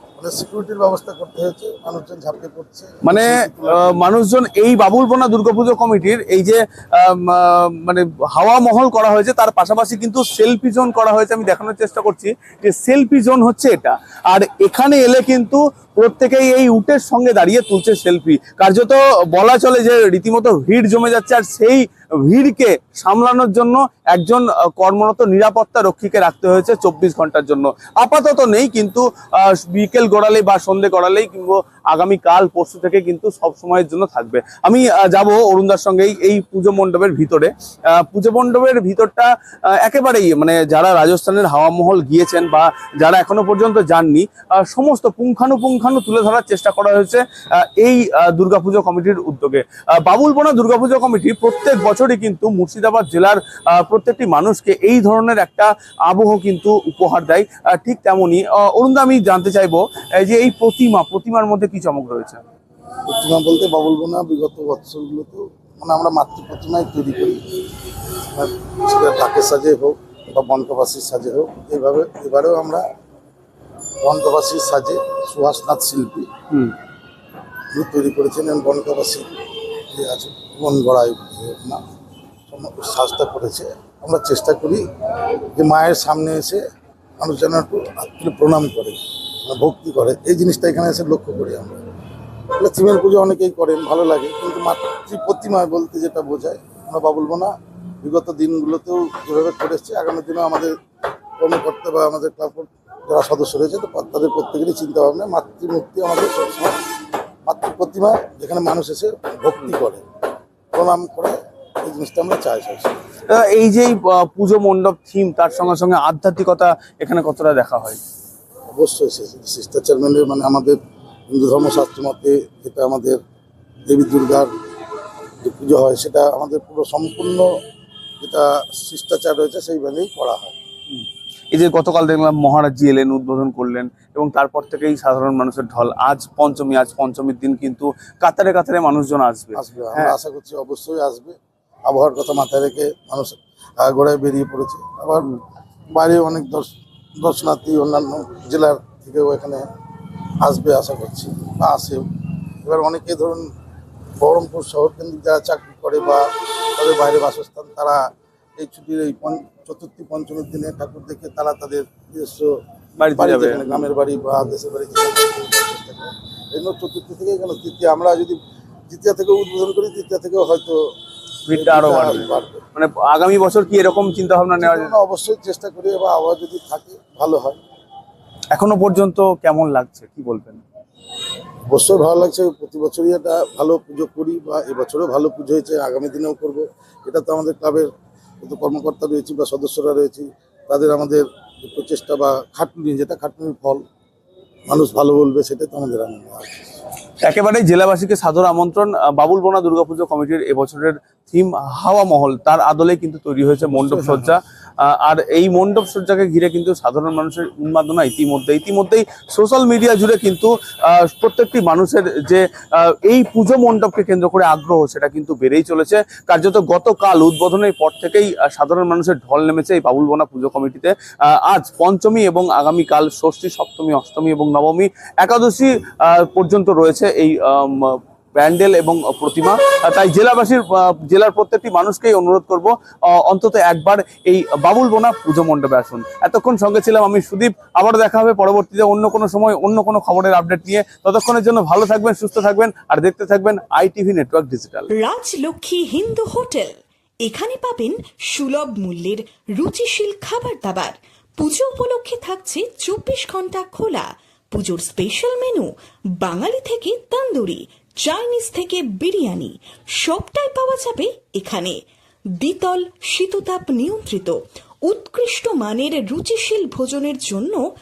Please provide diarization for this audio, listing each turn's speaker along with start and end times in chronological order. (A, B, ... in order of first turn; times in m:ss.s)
0:00.2-0:04.0 A
0:03.0-1:02.4 B
1:03.1-1:07.4 A
1:08.3-1:12.8 A
1:14.0-1:16.3 A
1:17.7-1:19.3 A
1:19.9-1:21.8 A
1:22.5-1:24.8 A
1:25.5-1:26.6 A
1:27.2-1:31.8 A
1:32.6-1:37.5 A
1:38.0-1:40.7 A
1:41.4-1:46.8 A
1:47.4-1:50.0 A
1:50.7-1:52.9 A
1:53.3-1:58.0 B
1:58.7-2:00.8 A
2:01.3-2:03.2 A
2:03.9-2:04.5 A
2:05.4-2:07.5 A
2:08.2-2:10.6 A
2:10.9-2:20.2 B
2:19.6-2:25.3 A
2:25.9-2:29.6 A
2:30.4-2:32.1 A
2:32.6-2:33.5 A
2:34.2-2:38.0 A
2:38.6-2:42.5 A
2:43.0-2:43.8 B
2:43.2-2:48.4 A
2:48.9-2:50.8 A
2:51.5-2:55.0 B
2:51.5-2:52.6 A
2:54.6-2:57.6 A
2:58.5-3:00.6 B
3:01.7-3:07.9 A
3:08.4-3:13.8 A
3:14.7-3:16.8 A
3:17.2-4:04.9 B
3:23.7-3:24.3 A
4:04.9-4:21.8 C
4:22.4-4:27.6 C